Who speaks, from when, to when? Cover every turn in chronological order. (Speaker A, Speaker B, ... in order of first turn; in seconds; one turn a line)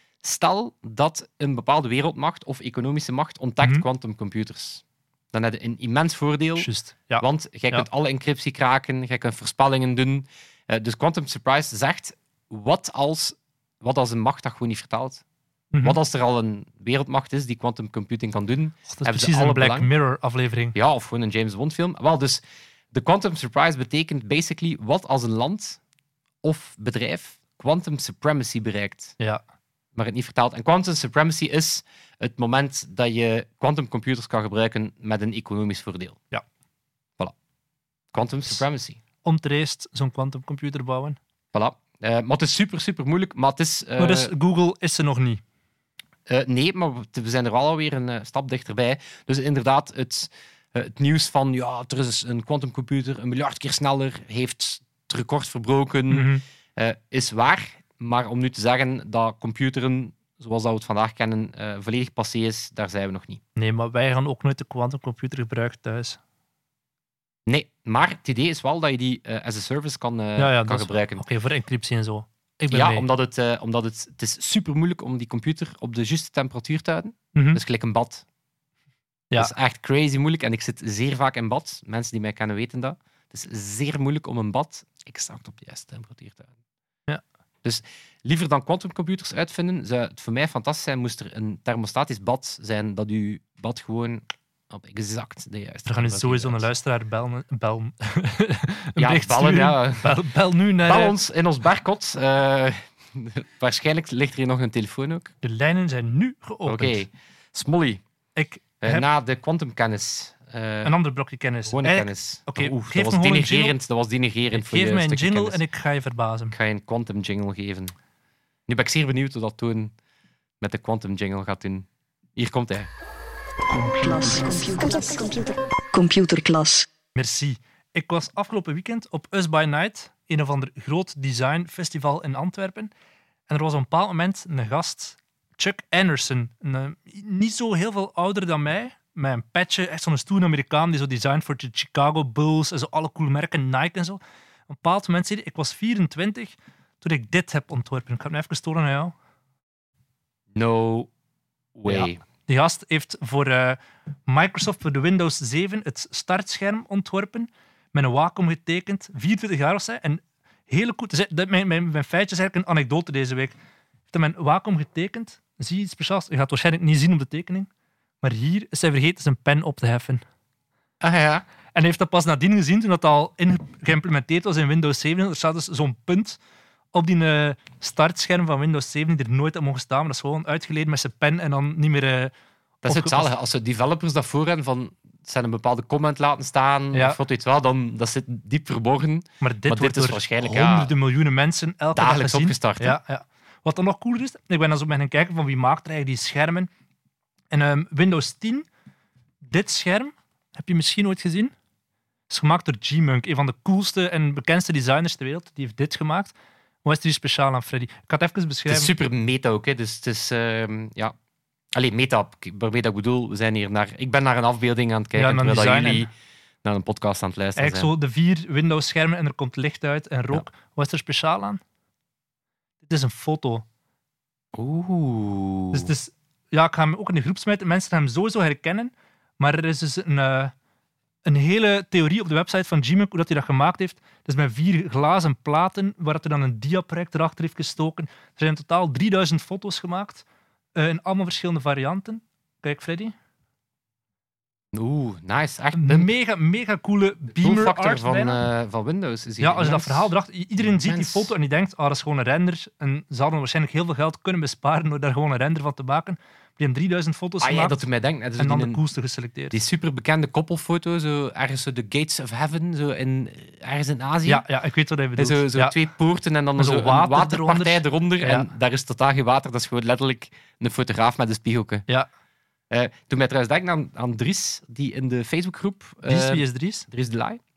Speaker A: 0.2-6.7
Speaker B: 6.6-7.8
Speaker A: 7.2-15.2
Speaker B: 15.7-16.0
Speaker A: 15.8-19.9
Speaker B: 18.9-20.7
Speaker A: 20.7-25.8
Speaker A: 26.4-29.1
Speaker A: 29.9-36.2
Speaker A: 38.1-39.0
Speaker B: 39.2-41.2
Speaker A: 41.5-44.3
Speaker B: 44.0-45.4
Speaker A: 46.3-63.4
Speaker B: 56.1-56.4
Speaker B: 63.5-66.2
Speaker A: 67.5-71.2
Speaker B: 70.4-73.0
Speaker A: 72.7-78.2
Speaker B: 77.3-77.6
Speaker A: 79.3-86.5
Speaker A: 87.6-96.7
Speaker B: 95.8-101.1
Speaker A: 99.0-100.2
Speaker A: 100.8-105.3
Speaker B: 105.4-107.0
Speaker A: 106.7-108.0
Speaker B: 108.3-109.0
Speaker A: 108.8-110.9
Speaker B: 110.8-113.8
Speaker A: 111.7-115.6
Speaker B: 114.5-116.5
Speaker A: 116.5-117.9
Speaker A: 118.7-119.9
Speaker A: 120.6-122.9
Speaker C: 123.8-126.9
Speaker B: 127.1-132.9
Speaker B: 133.5-149.1
Speaker A: 150.5-151.1
Speaker A: 151.7-152.2
Speaker B: 151.9-163.6
Speaker B: 164.1-167.7
Speaker B: 168.2-170.2
Speaker A: 171.0-171.4
Speaker B: 171.7-176.4
Speaker B: 176.9-182.3
Speaker B: 182.8-183.3
Speaker A: 182.8-190.9
Speaker B: 186.9-187.2
Speaker B: 189.4-196.7
Speaker A: 191.9-193.0
Speaker B: 197.5-198.7
Speaker B: 199.4-201.5
Speaker B: 202.3-208.9
Speaker A: 208.7-211.1
Speaker A: 211.7-216.1
Speaker B: 215.2-216.1
Speaker A: 216.6-217.9
Speaker B: 217.6-221.6
Speaker B: 222.8-223.6
Speaker A: 224.5-225.9
Speaker B: 225.7-230.5
Speaker B: 231.2-243.1
Speaker A: 244.7-246.1
Speaker B: 245.7-248.4
Speaker A: 247.4-251.3
Speaker B: 249.4-257.8
Speaker A: 257.4-258.8
Speaker B: 258.4-259.6
Speaker A: 259.5-264.4
Speaker B: 264.2-265.7
Speaker A: 265.2-271.9
Speaker B: 266.6-268.5
Speaker A: 272.7-277.4
Speaker B: 276.1-276.9